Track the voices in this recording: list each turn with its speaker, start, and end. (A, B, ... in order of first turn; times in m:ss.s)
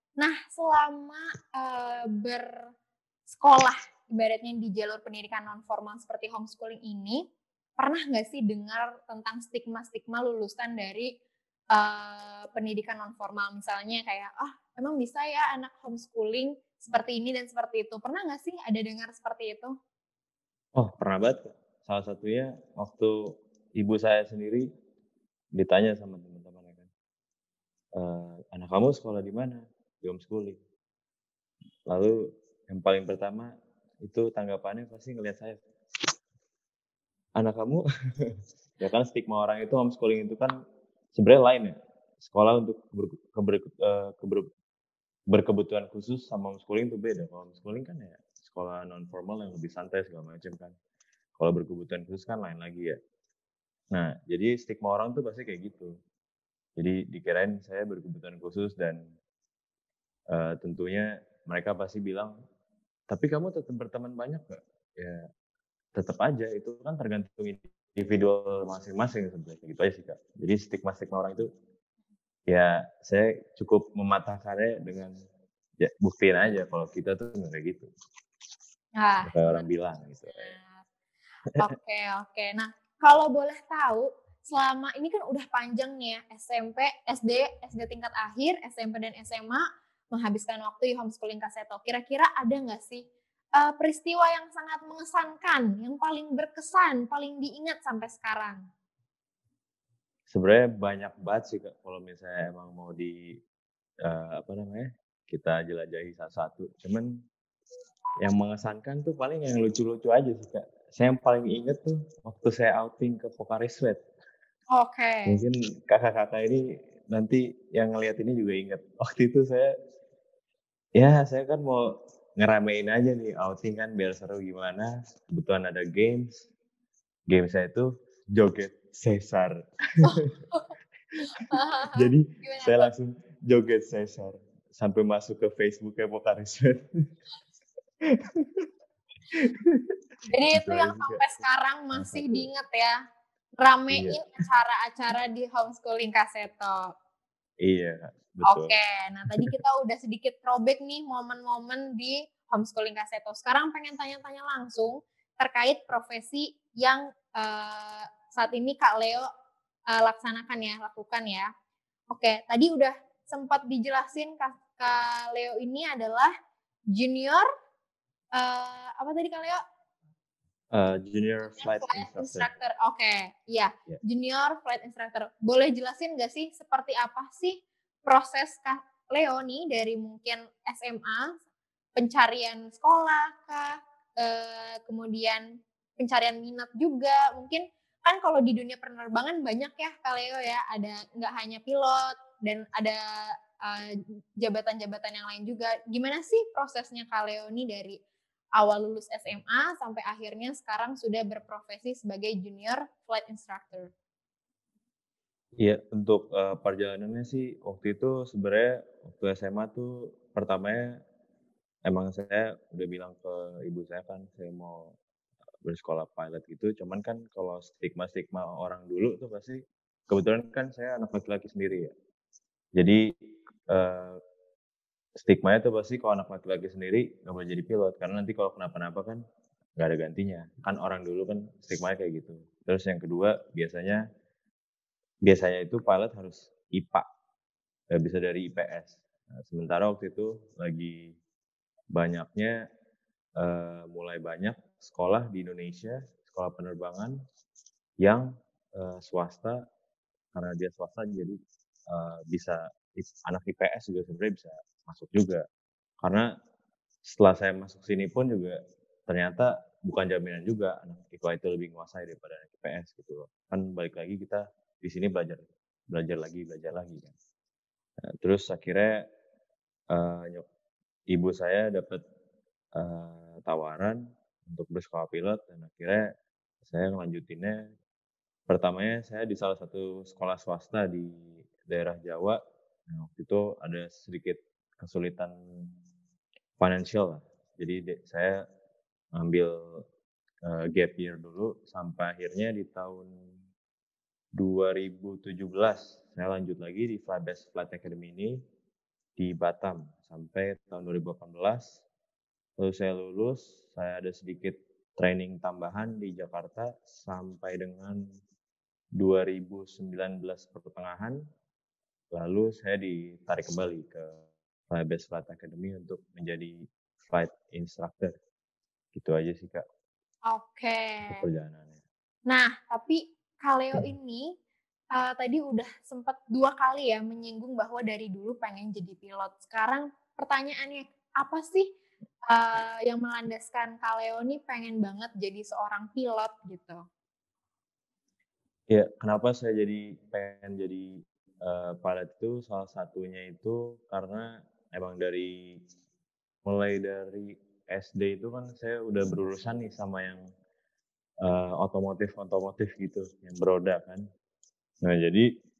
0:00.2-0:02.6 A
0:03.3-0:07.2 A
0:07.8-0:11.1 A
0:11.7-0:19.7 A
0:20.8-0:24.7 B
0:25.6-0:26.9 B
0:28.0-0:30.6 B
0:31.9-0:33.5 B
0:34.0-0:35.6 B
0:37.4-0:40.6 B
0:41.1-0:44.5 B
0:45.3-0:50.8 B
0:51.4-0:53.0 B
0:53.9-0:55.9 B
0:56.8-0:59.1 B
1:00.3-1:02.3 B
1:03.1-1:05.3 B
1:05.9-1:11.5 B
1:12.5-1:15.1 B
1:15.8-1:17.9 B
1:19.0-1:19.7 A
1:19.2-1:20.6 B
1:20.3-1:20.8 A
1:21.6-1:38.6 A
1:40.3-1:43.4 B
1:44.0-1:47.1 B
1:48.2-1:54.0 B
1:54.7-1:55.4 A
1:55.3-1:59.7 B
2:01.0-2:06.4 B
2:07.3-2:10.3 B
2:10.0-2:10.7 A
2:11.4-2:12.9 A
2:11.9-2:17.0 B
2:18.0-2:18.7 B
2:19.3-2:20.0 B
2:20.3-2:23.0 A
2:20.5-2:21.4 B
2:21.9-2:22.4 B
2:23.6-2:26.9 A
2:23.9-2:24.2 B
2:27.6-2:28.7 B
2:28.4-2:39.3 A
2:39.9-2:41.5 A
2:42.1-2:46.3 A
2:46.9-2:47.4 A
2:48.3-2:49.6 A
2:50.7-2:52.5 B
2:51.5-3:01.3 A
3:02.0-3:05.4 A
3:06.0-3:18.0 A
3:18.6-3:23.9 A
3:25.6-3:31.0 B
3:31.8-3:34.9 B
3:35.6-3:41.9 B
3:42.8-3:43.0 B
3:43.7-3:44.2 B
3:45.2-3:49.2 B
3:49.8-3:54.0 B
3:55.2-3:57.0 B
3:57.9-4:01.2 B
4:01.9-4:02.6 B
4:03.4-4:07.2 B
4:08.0-4:09.6 B
4:10.3-4:11.4 B
4:11.9-4:15.4 B
4:16.0-4:16.3 B
4:17.0-4:27.1 B
4:28.0-4:29.0 B
4:29.9-4:30.4 B
4:31.1-4:32.0 B
4:32.8-4:36.1 B
4:36.6-4:37.6 B
4:38.5-4:45.7 B
4:46.6-4:48.4 B
4:49.2-4:49.8 B
4:50.4-4:53.1 B
4:54.4-4:58.4 B
4:59.2-5:01.8 B
5:02.6-5:08.0 B
5:09.0-5:11.2 B
5:12.1-5:18.1 B
5:18.9-5:19.6 B
5:20.3-5:21.2 A
5:21.1-5:21.8 B
5:22.3-5:24.3 A
5:24.9-5:31.7 A
5:32.3-5:36.8 A
5:38.7-5:45.6 B
5:46.4-5:50.2 B
5:51.2-5:54.0 B
5:54.8-5:55.3 B